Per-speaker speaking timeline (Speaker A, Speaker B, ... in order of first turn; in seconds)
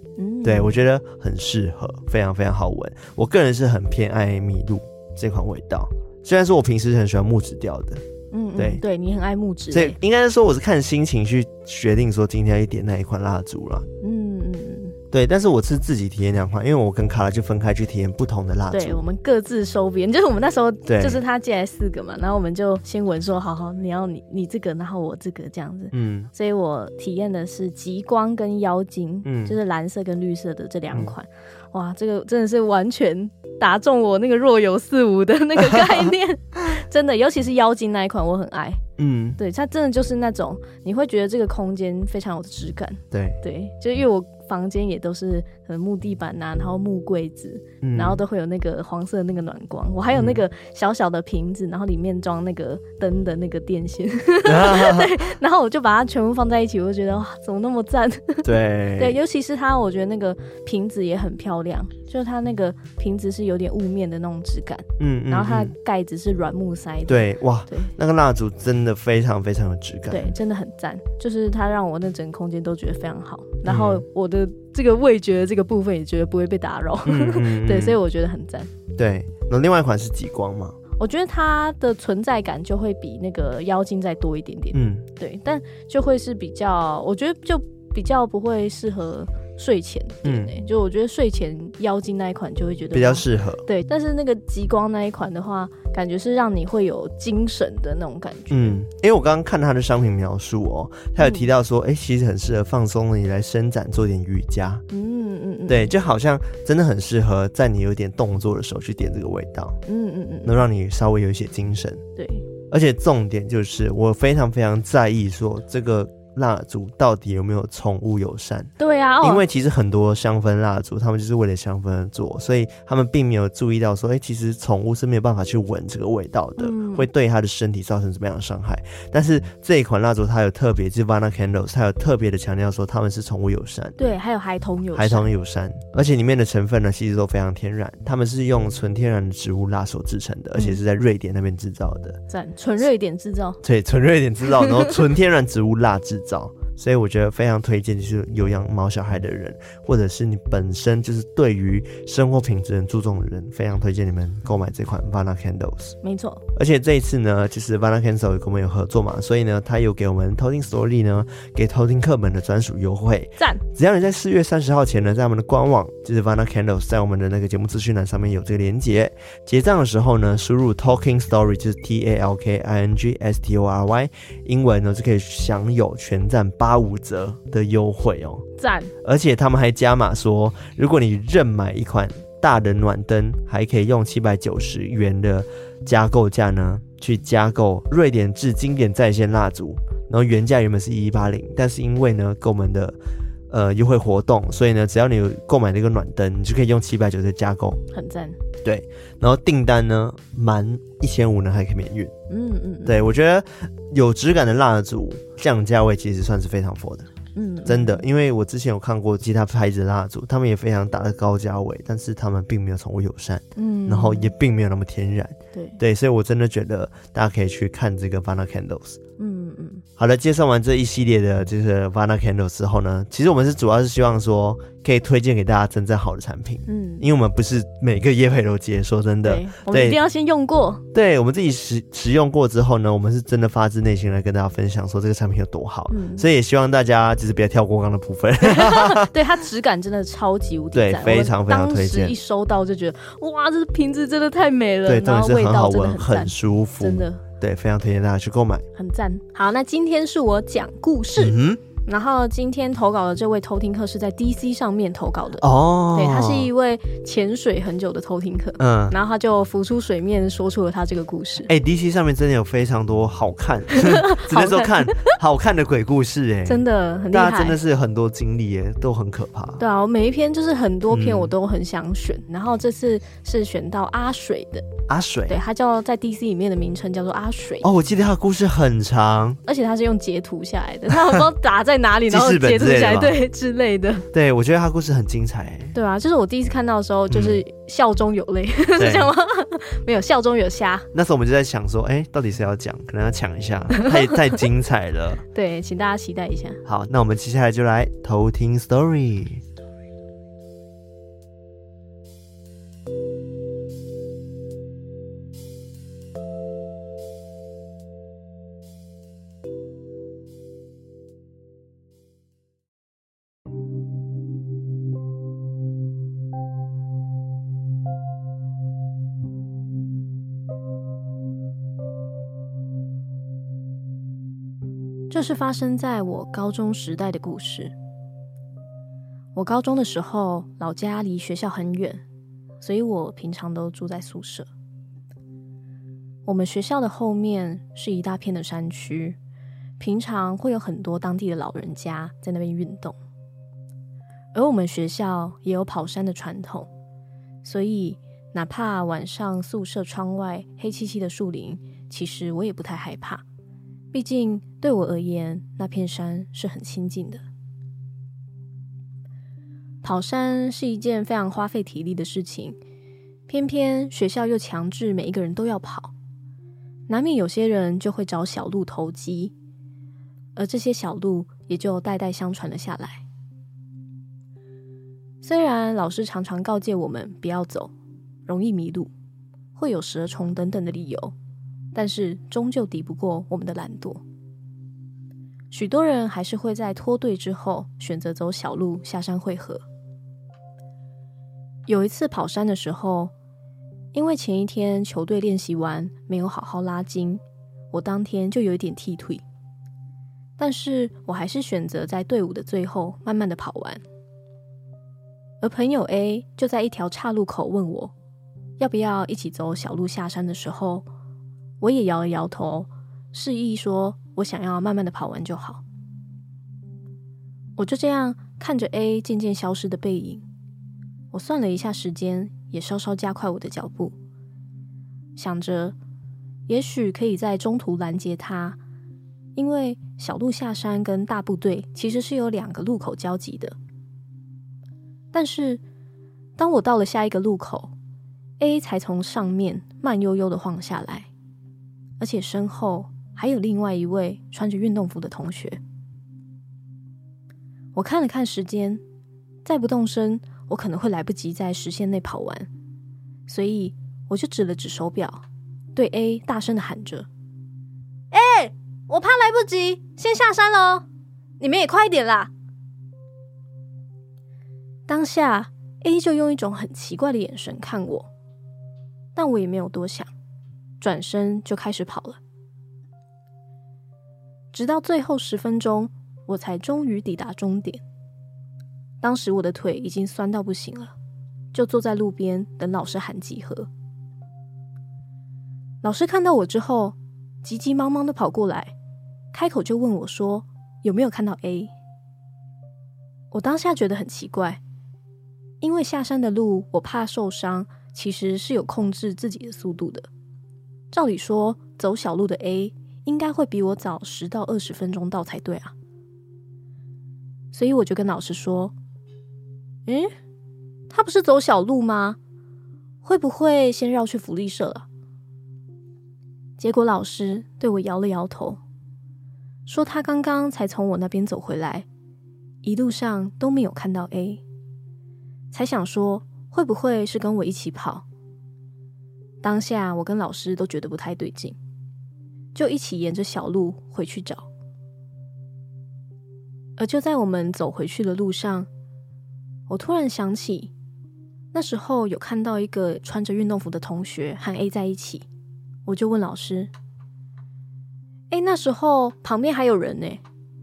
Speaker A: 0.2-0.7, 8.3-10.0, 14.0-15.0, 18.7-38.8, 39.4-67.9, 70.1-78.7, 81.0-98.8, 101.2-101.5, 104.9-105.9, 109.9-110.5, 112.2-112.5, 118.8-119.4, 126.6-127.1, 134.0-135.3, 142.3-143.6, 144.6-144.9, 156.0-156.4, 178.6-178.9, 197.9-198.4, 202.3-203.0, 207.3-208.1, 213.6-214.3, 215.5-215.8, 219.2-219.8, 226.7-227.1, 229.2-230.8, 235.9-236.3, 238.4-247.2, 248.8-261.5, 263.7-265.2, 266.5-267.6, 269.6-274.7, 275.3-277.7, 279.5-284.1, 285.7-290.9, 295.3-296.6, 325.1-327.7, 329.4-332.0, 332.6-334.5, 336.3-339.2, 339.8-343.0, 344.3-346.7, 347.4-353.2, 353.9-357.2, 359.8-362.6, 363.3-365.9, 366.9-369.3, 370.4-373.0, 375.2-377.7, 378.3-378.9, 379.6-381.1, 381.7-384.0, 385.5-389.6, 391.7-393.1, 393.9-399.2, 400.4-403.8, 405.4-407.9, 408.6-410.9, 411.6-415.6, 417.6-420.2, 421.1-423.9, 425.2-425.8, 426.5-428.6, 429.4-433.6, 435.1-435.6, 436.4-437.7, 438.4-441.1, 442.0-445.6, 447.8-448.8, 449.4-452.5, 453.3-455.2, 455.8-457.1, 458.1-460.9, 461.4-462.3, 464.9-468.1, 469.1-470.1, 470.8-472.2, 474.5-477.8, 479.0-480.9, 481.5-483.7, 485.8-488.7, 489.3-491.7, 493.3-494.6, 495.6-500.1, 500.9-505.7, 507.5-508.7, 509.9-510.1, 510.9-512.2, 513.0-514.9, 516.6-518.6, 519.7-521.9, 522.6-524.4, 525.5-528.0, 529.4-531.6, 532.5-534.5, 536.8-538.7, 539.7-540.7, 541.5-545.3, 545.9-546.7, 548.3-550.2
Speaker B: 0.4-8.0, 9.7-13.9, 15.1-19.0, 20.9-21.2, 25.9-26.3, 29.2-29.6, 39.0-39.4, 43.1-43.4, 47.8-48.2, 50.1-50.4, 54.5-55.1, 58.4-59.2, 65.0-65.7, 67.1-70.3, 73.7-74.0, 77.0-78.0, 79.0-80.8, 84.7-85.1, 90.2-90.5, 92.9-93.7, 98.5-104.8, 105.7-109.8, 110.4-112.0, 112.7-118.7, 119.2-134.1, 134.9-142.2, 143.6-156.0, 156.6-178.4, 179.0-193.0, 193.5-197.8, 198.6-202.1, 202.9-207.1, 207.7-219.0, 220.0-230.0, 230.9-239.1, 240.7-242.2, 244.9-248.6, 251.2-251.6, 255.4-256.5, 258.6-259.0, 261.5-269.6, 270.9-271.3, 274.9-275.4, 277.6-279.4, 282.1-283.1, 284.1-285.8, 287.1-287.4, 288.8-289.1, 290.9-295.2, 296.6-299.4